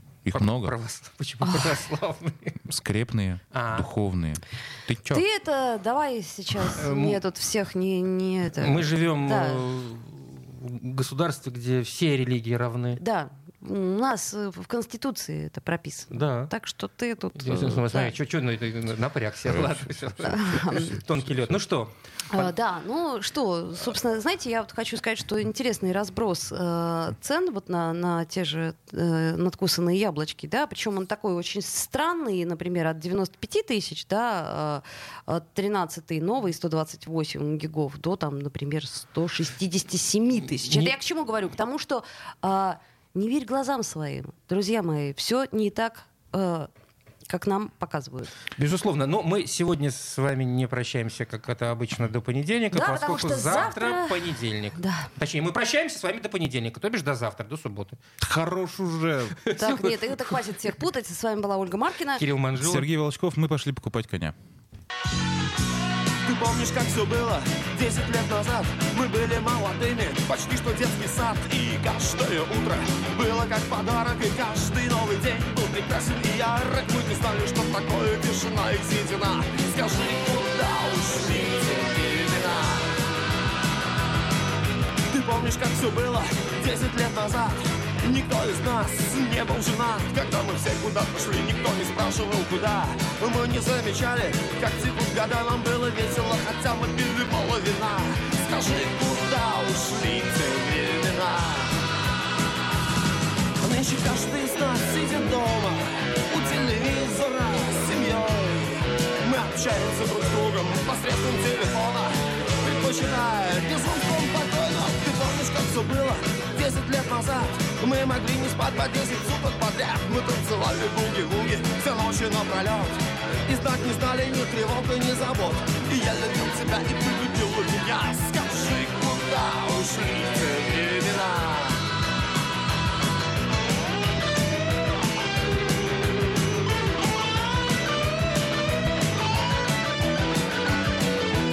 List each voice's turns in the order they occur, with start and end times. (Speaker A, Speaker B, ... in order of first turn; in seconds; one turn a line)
Speaker A: 0.2-0.8
Speaker B: 0.3-2.6
Speaker C: 1.4-1.7
Speaker A: 2.7-5.2
Speaker B: 3.5-3.9
Speaker C: 5.1-9.6
Speaker B: 6.8-7.2
Speaker B: 8.6-13.0
Speaker C: 13.0-18.1
Speaker B: 16.1-16.5
Speaker B: 17.4-22.5
Speaker A: 19.4-19.9
Speaker C: 20.2-21.0
Speaker C: 22.3-46.7
Speaker B: 40.7-40.9
Speaker C: 47.3-48.3
Speaker B: 48.6-58.0
Speaker C: 52.7-55.1
Speaker A: 58.2-59.5
Speaker B: 59.5-59.9
Speaker C: 59.6-62.2
Speaker B: 62.2-62.9
Speaker A: 62.6-64.3
Speaker D: 66.2-82.9
Speaker D: 85.1-101.8
Speaker D: 103.6-131.8